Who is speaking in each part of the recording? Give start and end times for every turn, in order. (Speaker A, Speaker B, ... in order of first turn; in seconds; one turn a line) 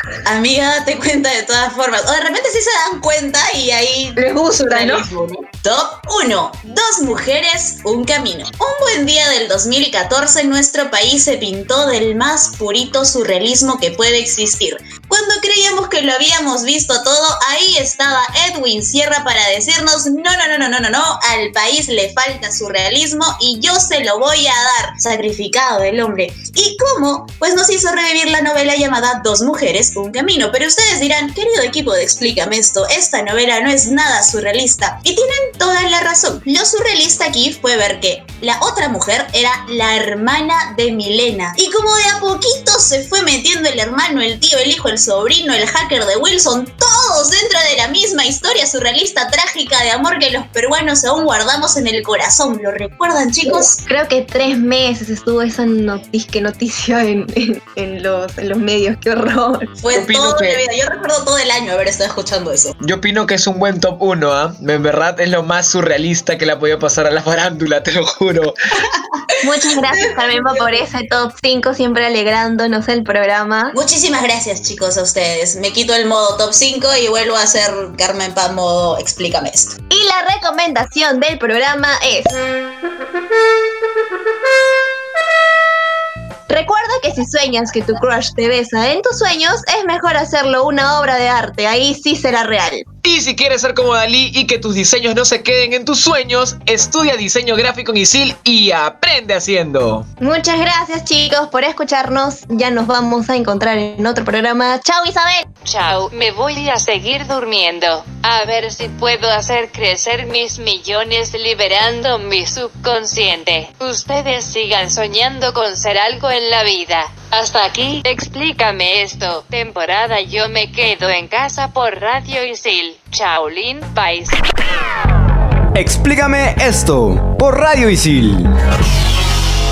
Speaker A: 0.2-53.8
Speaker B: 4.2-5.0
Speaker B: 53.9-59.7
Speaker A: 59.8-62.7
Speaker C: 59.9-60.6
Speaker C: 62.8-68.5
Speaker B: 69.4-73.7
Speaker A: 69.9-70.6
Speaker A: 73.7-79.8
Speaker B: 79.9-82.3
Speaker B: 86.5-92.8
Speaker C: 93.0-100.1
Speaker B: 100.2-105.5
Speaker D: 105.6-124.4
Speaker E: 125.7-128.5